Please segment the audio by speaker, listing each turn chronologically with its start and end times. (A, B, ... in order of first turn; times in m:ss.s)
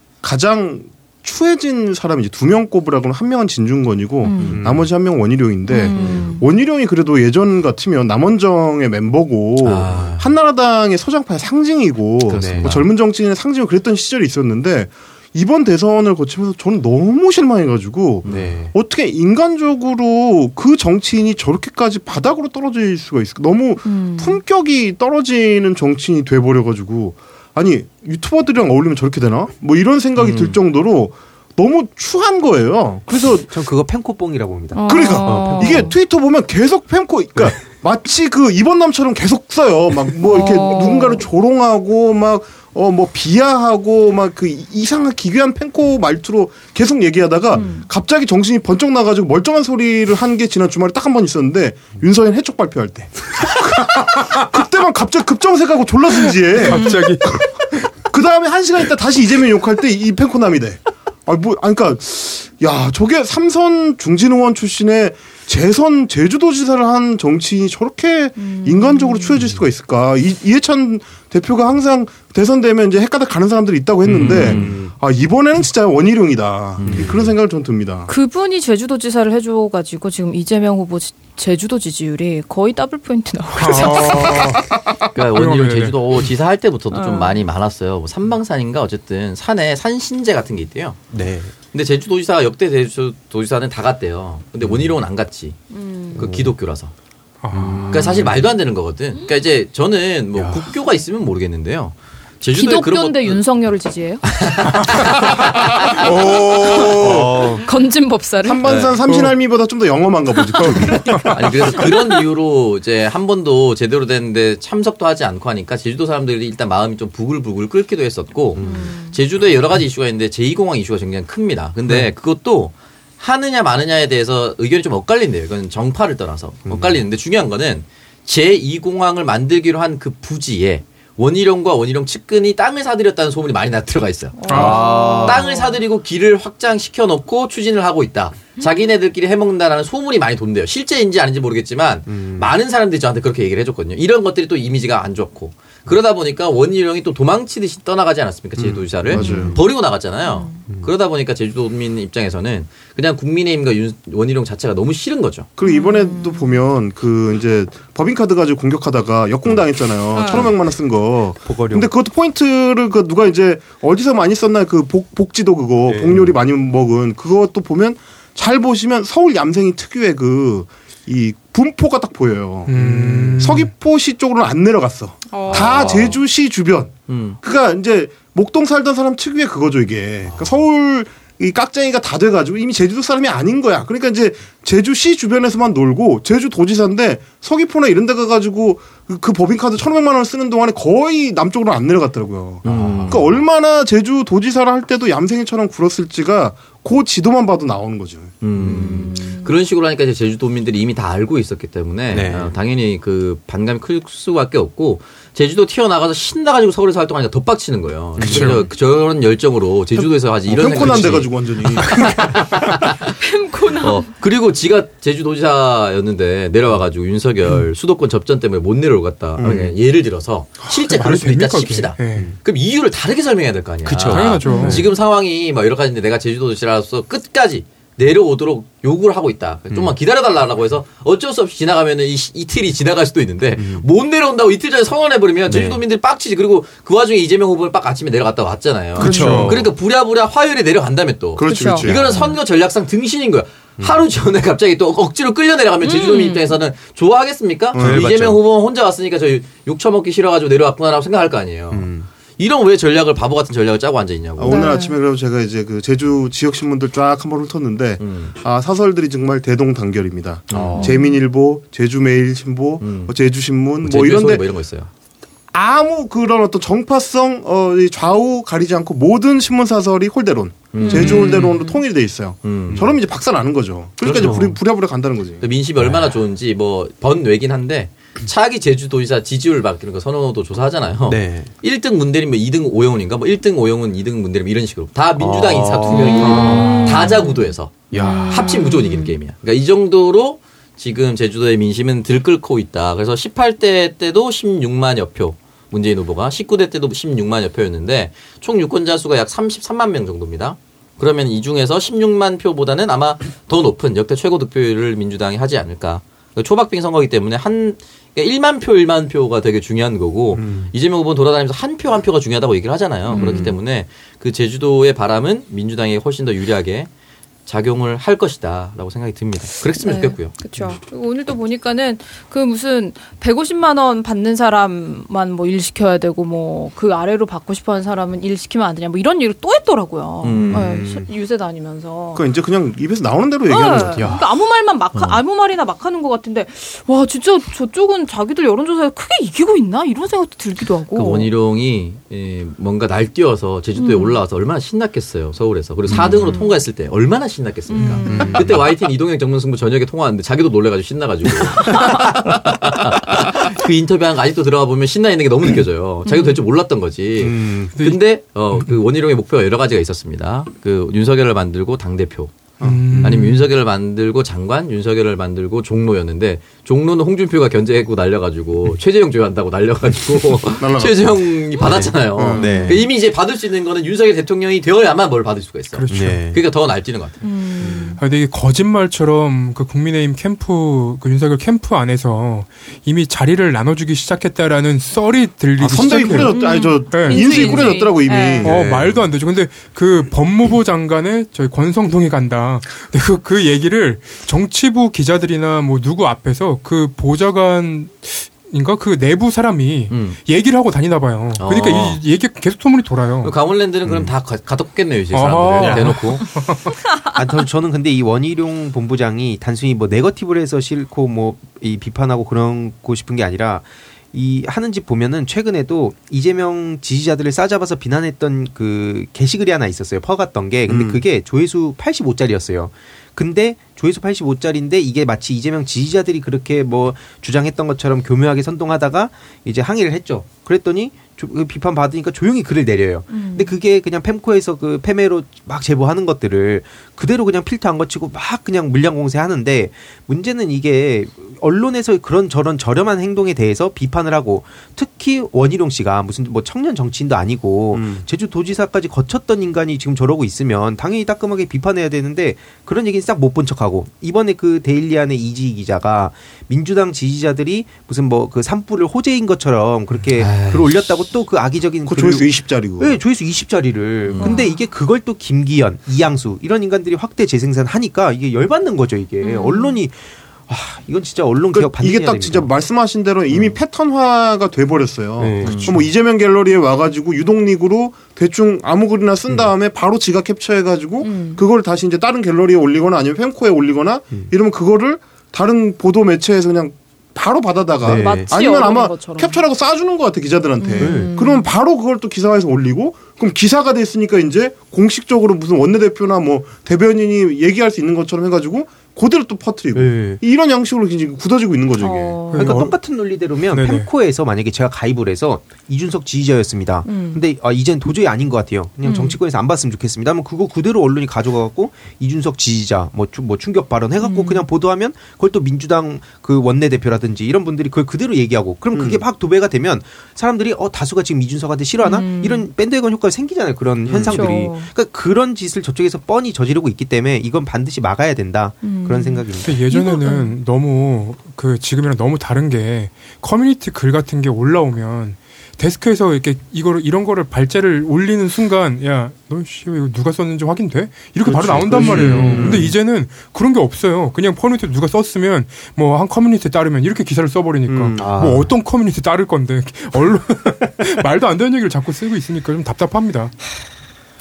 0:00.2-0:33.5 A
0:04.2-0:04.6 B
0:04.4-0:04.9 C
0:05.7-0:06.4 B
0:09.6-0:10.2 D
0:12.3-0:12.9 D
0:12.3-0:12.7 C
0:18.2-0:18.7 C
0:23.8-0:24.4 B
0:30.2-0:30.6 C
0:33.4-0:36.0 C
0:34.7-0:35.9 B
0:34.9-1:18.1 A
0:40.3-0:41.2 B
0:47.6-0:47.8 B
0:56.6-0:57.9 E
0:56.7-0:57.0 B
1:08.4-1:09.4 B
1:14.1-1:14.7 D
1:14.1-1:14.9 C
1:16.8-1:17.2 D
1:16.8-1:17.3 C
1:18.1-1:24.6 B
1:23.5-1:24.7 E
1:25.2-1:31.0 D
1:25.2-1:26.0 E
1:26.9-1:27.4 B
1:31.1-1:31.5 C
1:31.7-1:35.6 D
1:34.6-1:34.9 C
1:35.7-1:36.3 B
1:36.2-1:36.9 D
1:36.2-1:36.5 C
1:37.4-1:38.2 E
1:37.5-1:38.4 C
1:37.8-1:43.4 D
1:40.4-1:40.6 C
1:42.5-1:44.2 B
1:44.2-1:47.6 D
1:45.8-1:47.4 A
1:47.0-1:47.6 C
1:47.6-1:48.6 B
1:48.4-1:51.4 A
1:48.6-1:49.0 D
1:49.0-1:49.4 E
1:50.6-1:51.4 E
1:50.9-1:52.0 B
1:51.3-2:35.5 D
1:58.6-1:58.9 C
1:58.6-1:59.2 B
2:06.7-2:07.0 C
2:14.4-2:15.8 B
2:14.5-2:15.0 E
2:14.5-2:15.4 C
2:22.1-2:22.5 C
2:28.6-2:29.6 C
2:29.1-2:29.6 A
2:29.2-2:29.6 B
2:30.2-2:30.6 B
2:35.6-3:18.4 A
2:35.6-2:36.6 B
2:40.1-2:40.5 B
2:41.4-2:41.9 C
2:45.9-2:46.4 C
2:52.7-2:53.7 E
2:55.3-2:55.9 B
2:55.5-2:56.2 D
2:55.7-2:56.1 C
2:57.1-2:57.4 D
3:00.3-3:00.6 C
3:12.6-3:13.3 D
3:12.6-3:13.4 C
3:18.4-3:33.0 D
3:18.6-3:19.0 C
3:18.7-3:19.5 B
3:22.1-3:22.5 C
3:28.2-3:28.6 C
3:28.3-3:28.6 E
3:30.0-3:32.1 A
3:30.7-3:31.2 C
3:33.2-3:34.1 B
3:33.8-4:14.7 D
3:39.4-3:39.7 A
3:40.7-3:42.3 E
3:43.9-3:44.8 C
3:44.1-3:44.9 E
3:44.1-3:44.8 A
3:44.4-3:44.9 B
3:53.6-3:53.9 C
3:55.5-3:55.8 C
3:59.0-3:59.7 A
3:59.0-3:59.6 E
3:59.0-3:59.7 C
4:01.4-4:02.0 A
4:01.4-4:01.9 B
4:01.9-4:02.4 C
4:05.8-4:06.6 B
4:07.7-4:08.1 A
4:07.8-4:08.4 C
4:11.7-4:12.1 C
4:14.4-4:24.4 A
4:14.5-4:15.0 B
4:18.0-4:18.4 D
4:20.5-4:21.0 D
4:20.5-4:20.9 C
4:20.8-4:21.2 B
4:22.8-4:23.2 D
4:23.8-4:24.9 D
4:25.5-4:35.4 A
4:30.7-4:31.6 D
4:30.8-4:31.8 B
4:32.4-4:33.0 D
4:34.0-4:34.6 D
4:34.1-4:34.6 C
4:35.4-5:16.9 D
4:35.8-4:36.1 C
4:41.1-4:41.5 C
4:45.2-4:47.2 C
4:45.9-4:47.5 B
4:47.9-4:48.5 C
4:48.0-4:49.1 B
5:13.1-5:13.4 B
5:13.1-5:13.5 C
5:17.5-5:20.6 D
5:19.8-5:32.2 B
5:30.2-5:30.8 D
5:30.5-5:31.1 C
5:32.2-5:34.2 A
5:33.5-5:41.3 B
5:40.9-6:02.3 D
5:43.8-5:44.2 B
5:45.9-5:46.3 C
5:45.9-5:46.6 B
5:47.7-5:48.5 B
5:48.1-5:48.7 C
5:51.6-5:52.1 B
5:56.1-5:56.4 B
5:57.2-5:57.7 C
6:02.6-6:03.2 A
6:02.6-6:03.4 E
6:03.0-6:17.2 D
6:10.6-6:12.8 A
6:11.6-6:12.8 C
6:15.7-6:16.3 E
6:15.9-6:16.4 C
6:17.2-6:18.0 B
6:18.0-6:27.8 E
6:25.6-6:29.1 A
6:25.9-6:28.6 B
6:28.4-6:43.4 E
6:39.9-6:40.2 D
6:41.4-6:42.0 D
6:43.2-6:46.3 D
6:45.1-6:46.8 E
6:47.1-7:52.5 C
7:00.7-7:01.0 A
7:13.1-7:13.6 B
7:27.7-7:28.1 A
7:40.2-7:40.8 D
7:41.9-7:43.0 A
7:44.2-7:44.6 B
7:49.2-7:49.8 B
7:51.5-8:22.7 A
7:55.2-7:55.9 C
8:01.0-8:01.4 B
8:07.8-8:08.3 C
8:07.8-8:09.4 B
8:10.6-8:11.5 B
8:10.8-8:11.2 C
8:19.7-8:20.2 C
8:21.8-8:22.6 B
8:22.4-8:49.5 C
8:23.5-8:23.9 E
8:26.8-8:27.2 B
8:28.8-8:29.2 B
8:34.0-8:34.4 B
8:38.7-8:39.0 A
8:41.8-8:42.5 B
8:43.9-8:44.3 A
8:44.1-8:44.7 B
8:48.6-8:50.3 B
8:49.4-9:13.3 E
9:01.3-9:02.7 A
9:01.3-9:02.7 C
9:07.7-9:08.5 A
9:08.0-9:08.5 C